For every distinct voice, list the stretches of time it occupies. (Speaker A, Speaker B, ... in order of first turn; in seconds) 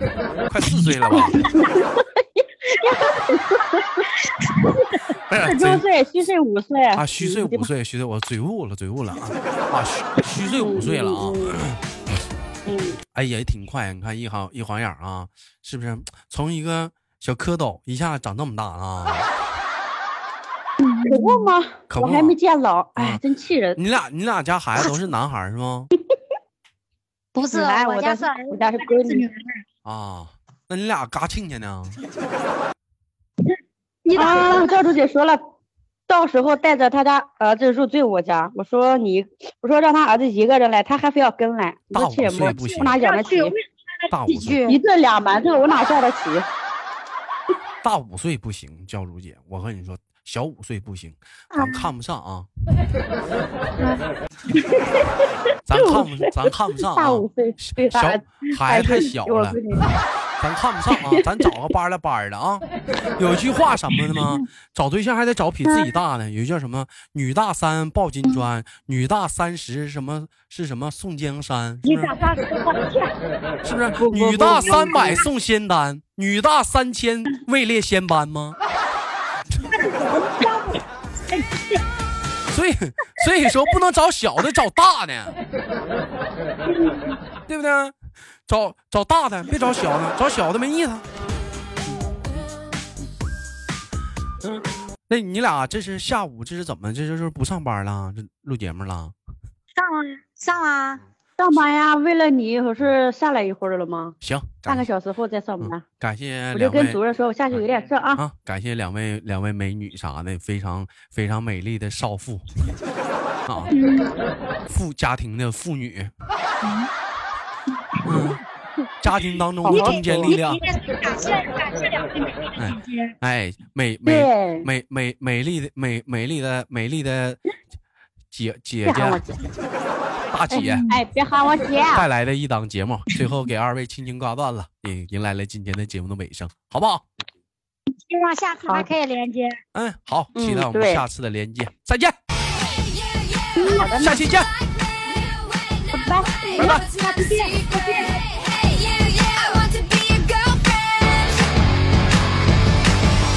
Speaker A: 0.5-1.5, 5.3-5.8, 6.9-11.8, 13.1-19.3, 21.9-22.4, 23.8-25.9, 29.8-32.0, 41.9-43.0, 44.1-44.6, 47.8-52.5, 55.6-59.6, 60.4-62.6, 63.2-72.1, 73.6-78.6, 82.5-85.3, 87.5-87.9, 88.5-91.0, 94.4-99.1, 104.2-104.8, 105.6-107.0, 108.2-112.5, 114.7-116.1, 118.0-118.4, 119.0-120.6, 122.6-127.4, 128.3-129.2, 130.3-130.8, 131.9-137.1, 139.7-142.2, 144.0-144.5, 146.6-146.8
Speaker B: 1.4-4.1, 5.4-7.7, 10.4-11.6, 12.7-13.0, 21.0-23.8, 27.5-29.2, 34.1-35.4, 36.1-43.5, 44.7-46.5, 54.6-55.2, 55.7-59.9, 61.0-61.4, 74.0-75.2, 101.4-105.8, 106.5-108.2, 119.6-120.3, 124.0-124.7, 128.8-129.3, 130.9-132.0, 140.3-141.0, 143.6-144.2, 145.9-146.7
Speaker C: 20.8-21.5, 27.3-29.6, 34.0-34.8, 42.4-44.8, 51.5-51.9, 53.8-54.0, 71.8-73.1, 74.2-75.2, 79.7-81.8, 83.2-83.7, 86.7-87.2, 99.8-101.0, 113.7-114.1, 116.6-116.9, 119.7-123.1, 130.5-131.0, 138.0-139.6, 143.6-143.9, 146.6-148.2
Speaker D: 142.5-151.5